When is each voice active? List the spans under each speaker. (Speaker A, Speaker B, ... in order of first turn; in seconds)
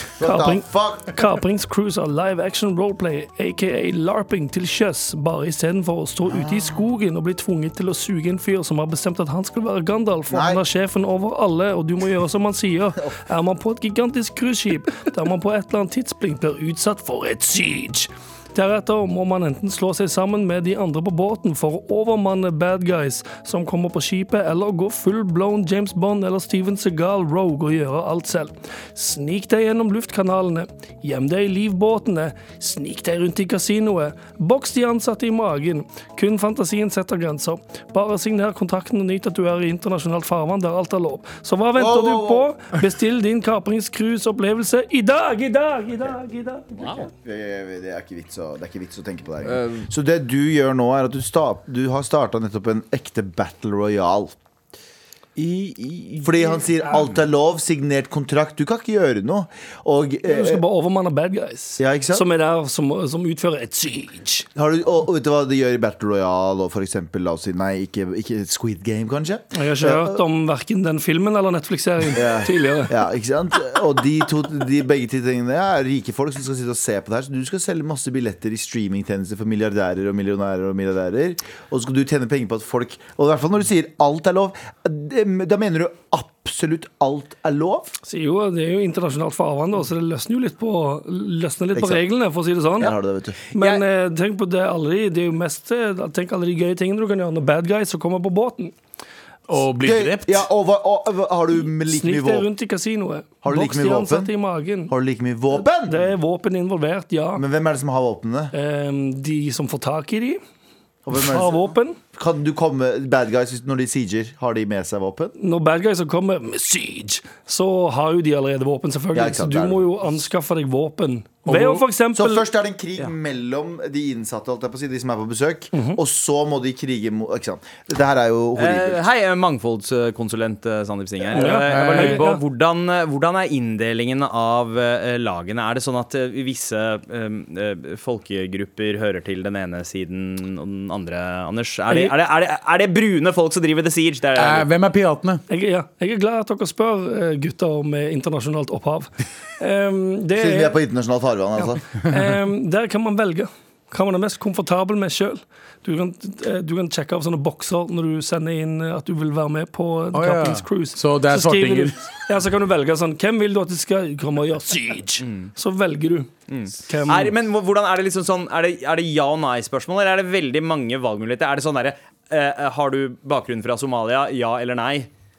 Speaker A: 0.2-1.1, 6.3-6.8, 10.3-10.6, 41.8-42.5, 46.8-54.4, 56.2-60.6, 61.8-62.3, 64.6-70.2, 72.1-87.9, 91.8-92.0, 92.8-93.4, 99.8-102.5, 103.4-104.3, 104.9-106.1, 107.4-108.5, 111.1-115.3, 119.1-119.9, 122.1-129.0, 150.3-151.8
Speaker B: 0.2-47.0, 60.2-64.5, 69.5-73.0, 88.0-93.0, 93.5-98.8, 101.9-104.9, 105.5-107.4, 108.5-110.4, 111.1-112.0, 115.4-122.5, 125.7-126.0, 131.3-132.4, 141.9-142.2, 145.5-150.8, 151.6-166.3, 166.8-167.4
Speaker C: 49.5-49.9, 55.4-57.1, 93.5-93.8, 128.6-144.7, 165.2-165.5, 166.5-175.1
Speaker D: 99.5-100.5, 121.5-121.8, 131.4-132.2, 144.4-145.4, 160.1-162.0